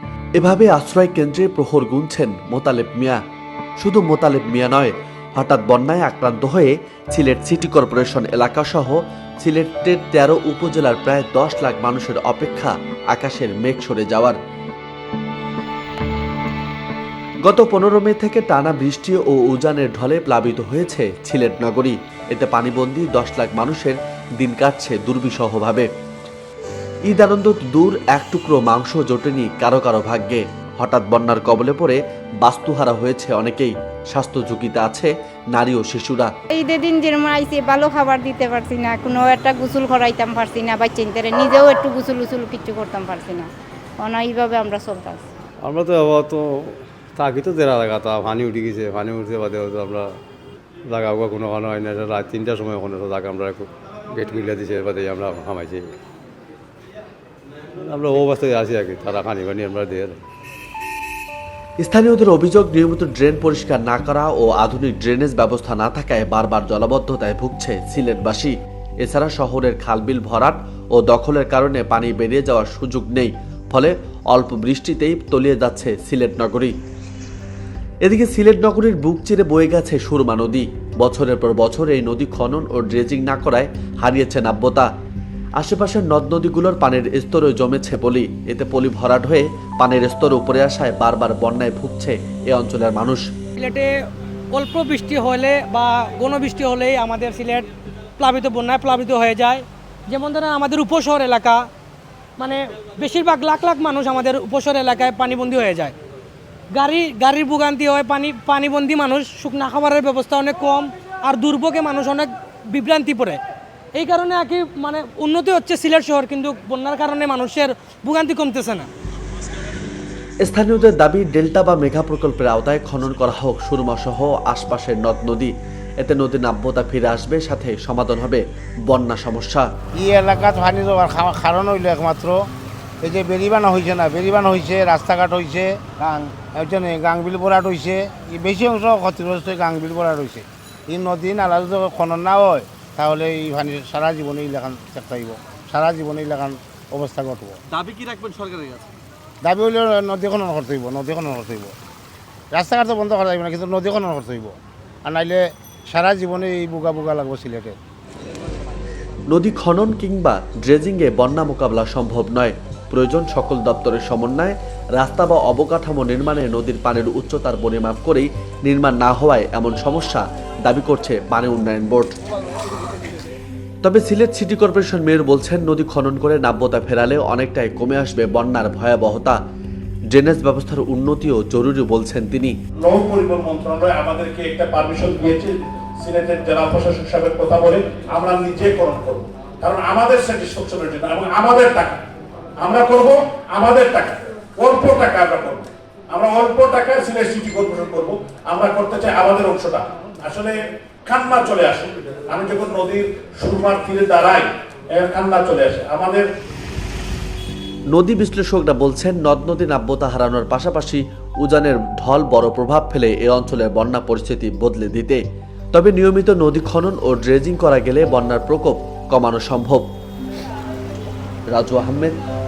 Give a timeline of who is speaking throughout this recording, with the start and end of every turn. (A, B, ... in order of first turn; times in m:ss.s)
0:00.4-0:03.2 A
0:03.8-0:14.4 A
0:17.4-0:25.9 A
0:27.1-0:36.3 A
0:36.5-0:45.3 B
0:45.6-0:50.2 C
0:50.9-0:56.0 C
0:57.8-1:00.2 C
1:01.8-1:16.7 A
1:18.0-1:24.9 A
1:25.6-1:33.3 A
1:33.6-1:33.9 D
1:34.5-1:41.7 D
1:42.4-1:45.9 D
1:46.7-1:53.4 D
1:53.9-1:58.9 D
2:00.4-2:09.7 A
2:10.0-2:12.4 E
2:13.0-2:27.6 E
2:27.7-2:28.8 A
2:29.4-2:31.7 E
2:32.5-2:37.8 E
2:39.3-2:52.1 A
2:53.8-2:59.4 A
3:00.1-3:02.5 A
3:02.8-3:12.0 F
3:12.6-3:26.3 F
3:27.9-3:35.2 A
3:35.7-3:39.8 A
3:41.5-3:42.2 A